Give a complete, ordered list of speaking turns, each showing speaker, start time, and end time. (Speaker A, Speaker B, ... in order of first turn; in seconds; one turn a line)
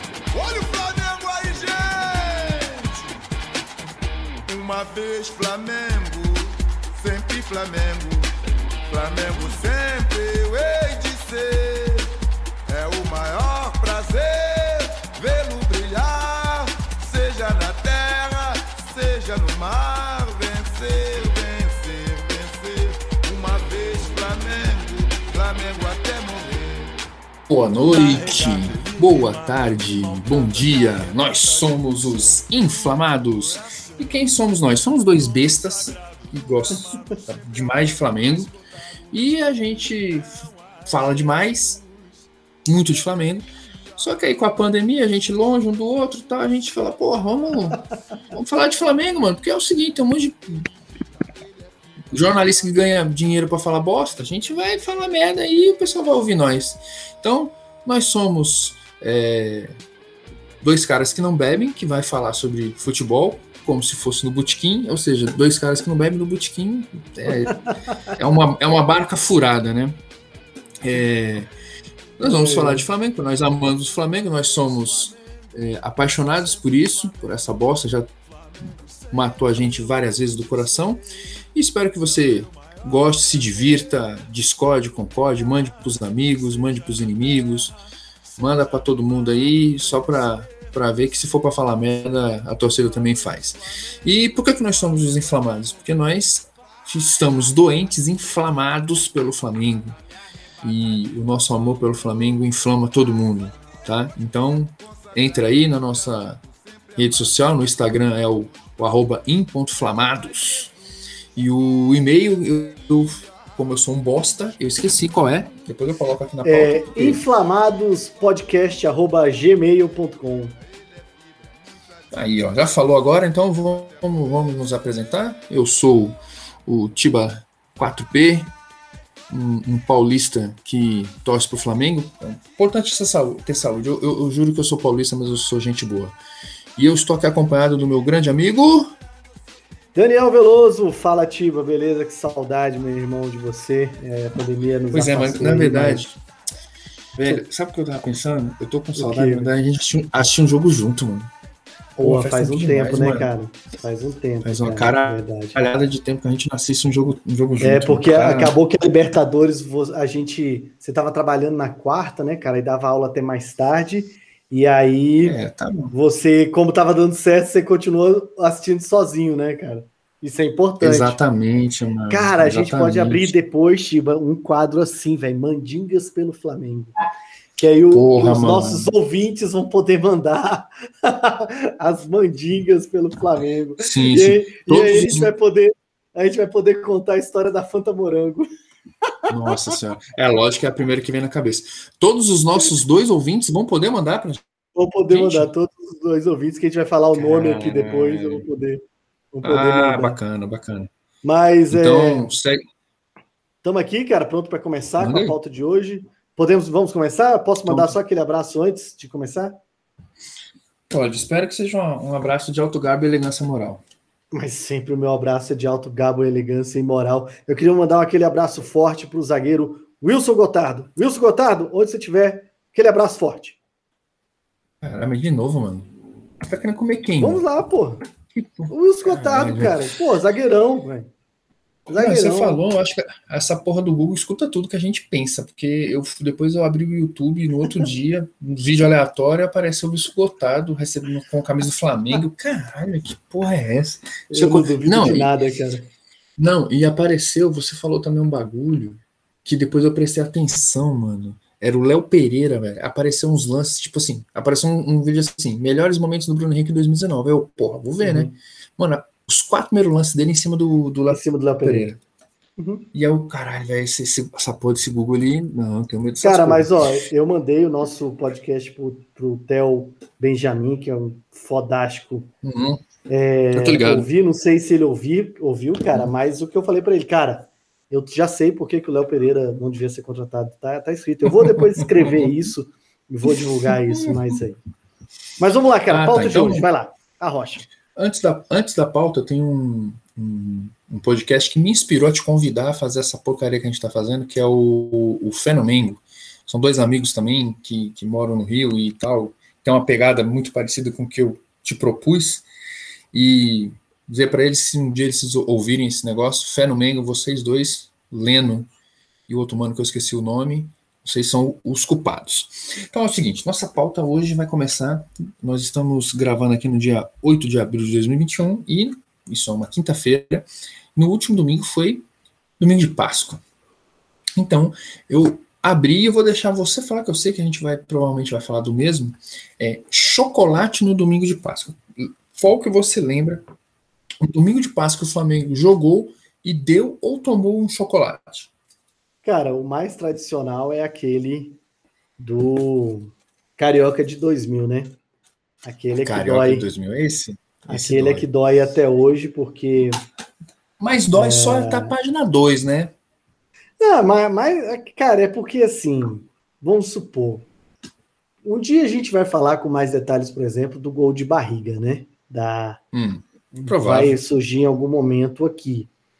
Speaker A: 0.3-3.1
Speaker A: 4.5-8.3
Speaker A: 8.9-12.1
Speaker A: 12.7-27.0
Speaker B: 27.5-38.5
Speaker A: 27.8-32.6
Speaker A: 33.3-34.0
Speaker A: 35.4-37.3
Speaker B: 39.1-41.8
Speaker B: 42.6-50.6
Speaker B: 52.1-59.7
Speaker B: 60.6-70.0
Speaker C: 67.5-68.0
Speaker B: 70.8-71.5
Speaker B: 72.2-78.1
Speaker C: 72.2-72.9
Speaker B: 79.1-81.0
Speaker B: 81.5-87.7
Speaker B: 88.4-100.0
Speaker B: 100.6-106.4
Speaker A: 104.9-107.3
Speaker B: 107.0-110.7
Speaker B: 111.3-117.2
Speaker A: 113.1-113.5
Speaker C: 116.4-120.5
Speaker A: 120.8-122.0
Speaker B: 122.1-128.5
Speaker B: 129.3-136.2
Speaker B: 136.8-138.9
Speaker C: 139.9-146.1
Speaker B: 144.9-146.2
Speaker B: 147.1-151.3
Speaker C: 148.9-149.5
Speaker C: 152.0-155.6
Speaker B: 152.0-153.3
Speaker B: 154.4-158.5
Speaker C: 157.6-165.4
Speaker B: 165.2-165.9
Speaker C: 165.9-171.2
Speaker B: 170.8-173.3
Speaker C: 172.1-176.9
Speaker C: 177.6-188.5
Speaker B: 177.9-178.9
Speaker B: 183.8-185.3
Speaker B: 189.3-194.4
Speaker C: 189.4-189.7
Speaker C: 194.8-200.2
Speaker B: 195.1-195.5
Speaker B: 197.1-198.4
Speaker B: 199.4-200.9
Speaker C: 201.2-202.3
Speaker B: 201.7-202.6
Speaker C: 203.6-209.6
Speaker B: 205.0-205.4
Speaker B: 207.6-207.9
Speaker B: 210.9-213.8
Speaker C: 214.3-223.6
Speaker B: 224.8-225.9
Speaker B: 226.4-227.4
Speaker C: 227.2-228.0
Speaker B: 228.3-229.9
Speaker C: 228.7-231.1
Speaker B: 231.9-245.4
Speaker C: 231.9-232.6
Speaker C: 244.3-245.9
Speaker B: 246.4-262.0
Speaker C: 258.0-258.4
Speaker C: 261.1-261.9
Speaker C: 262.6-262.9
Speaker B: 262.9-266.7
Speaker C: 266.2-272.3
Speaker B: 272.4-272.8
Speaker C: 273.1-284.6
Speaker B: 273.5-274.1
Speaker B: 281.3-282.5
Speaker B: 283.7-284.4
Speaker C: 285.4-287.7
Speaker B: 285.9-286.7
Speaker B: 287.9-302.4
Speaker B: 303.1-308.7
Speaker B: 309.3-322.0
Speaker B: 322.6-323.4
Speaker B: 324.4-333.4
Speaker B: 334.2-338.5
Speaker C: 339.2-341.6
Speaker C: 342.2-344.9
Speaker C: 345.6-346.7
Speaker B: 346.0-348.2
Speaker C: 347.7-350.0
Speaker B: 350.8-352.9
Speaker C: 351.1-351.9
Speaker C: 353.8-357.5
Speaker C: 358.4-362.8
Speaker B: 362.9-364.2
Speaker C: 363.5-365.9